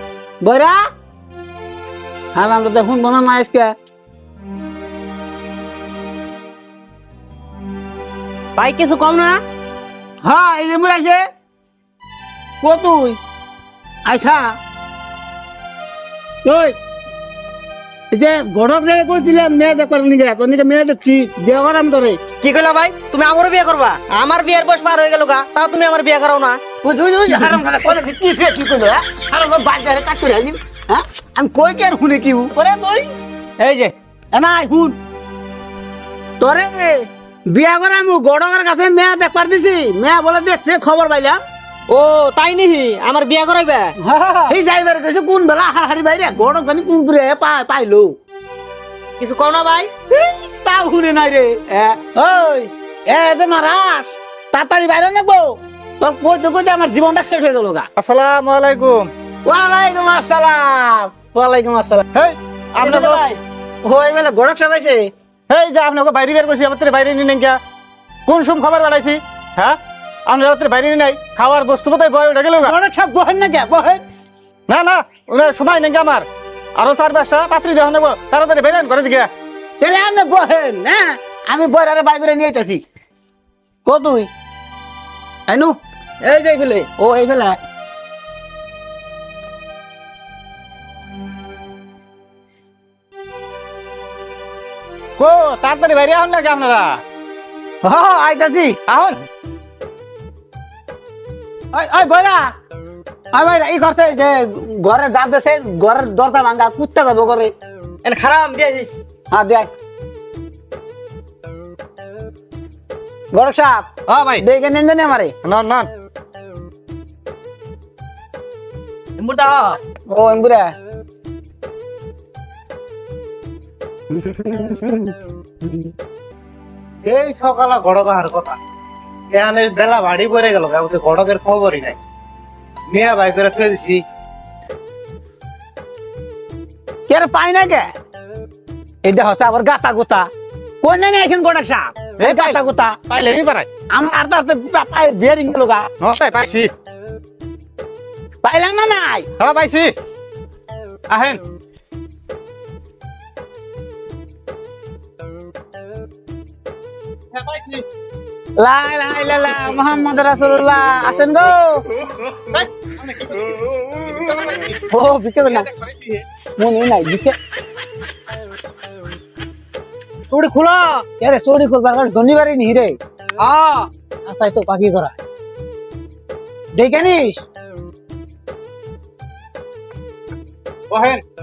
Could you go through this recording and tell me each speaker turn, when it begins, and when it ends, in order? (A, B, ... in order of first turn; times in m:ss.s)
0:00.4-0:00.8 A
0:02.4-0:03.7 A
0:08.6-0:09.4 B
0:10.2-0:11.2 A
0:12.6-0:13.2 A
0:14.1-0:14.6 A
0:16.4-0:16.8 A
0:18.1-0:22.2 A
0:22.4-0:26.6 B
0:26.8-0:33.1 A
0:33.6-0:33.9 B
0:34.3-0:35.0 A
0:36.4-0:41.4 A
0:41.9-0:44.0 B
0:44.0-0:48.2 A
0:49.2-0:49.9 B
0:50.1-0:57.9 A
0:58.0-0:59.1 C
0:59.5-1:02.0 A
1:02.1-1:03.4 C
1:02.8-1:03.2 A
1:03.8-1:05.1 A
1:05.5-1:07.6 C
1:08.3-1:12.7 C
1:12.6-1:14.0 A
1:14.7-1:19.3 C
1:19.8-1:22.8 A
1:23.8-1:24.3 A
1:25.5-1:25.8 A
1:26.2-1:26.9 B
1:27.0-1:27.6 A
1:35.2-1:37.0 C
1:37.8-1:38.8 A
1:38.9-1:39.2 C
1:41.7-1:42.5 A
1:43.3-1:47.5 A
1:48.0-1:48.9 B
1:49.3-1:49.7 A
1:53.3-1:55.3 A
1:54.1-1:54.4 D
1:55.4-1:55.9 C
1:59.2-1:59.8 B
2:00.1-2:00.7 A
2:04.1-2:05.1 A
2:07.0-2:08.6 D
2:09.3-2:12.0 D
2:12.9-2:14.0 D
2:17.1-2:17.9 A
2:19.0-2:20.3 A
2:20.8-2:23.0 A
2:22.2-2:22.6 C
2:23.1-2:23.7 C
2:23.9-2:25.9 A
2:26.0-2:26.7 C
2:28.4-2:29.3 A
2:29.4-2:29.9 C
2:31.1-2:31.4 C
2:37.3-2:37.8 D
2:38.6-2:41.8 A
2:42.5-2:44.8 D
2:44.9-2:45.7 A
2:45.4-2:46.2 D
2:46.6-2:47.4 A
2:50.3-2:51.0 B
2:51.2-2:53.0 A
2:53.4-2:53.9 B
2:54.6-2:55.0 B
2:56.8-2:57.4 A
3:00.9-3:01.2 C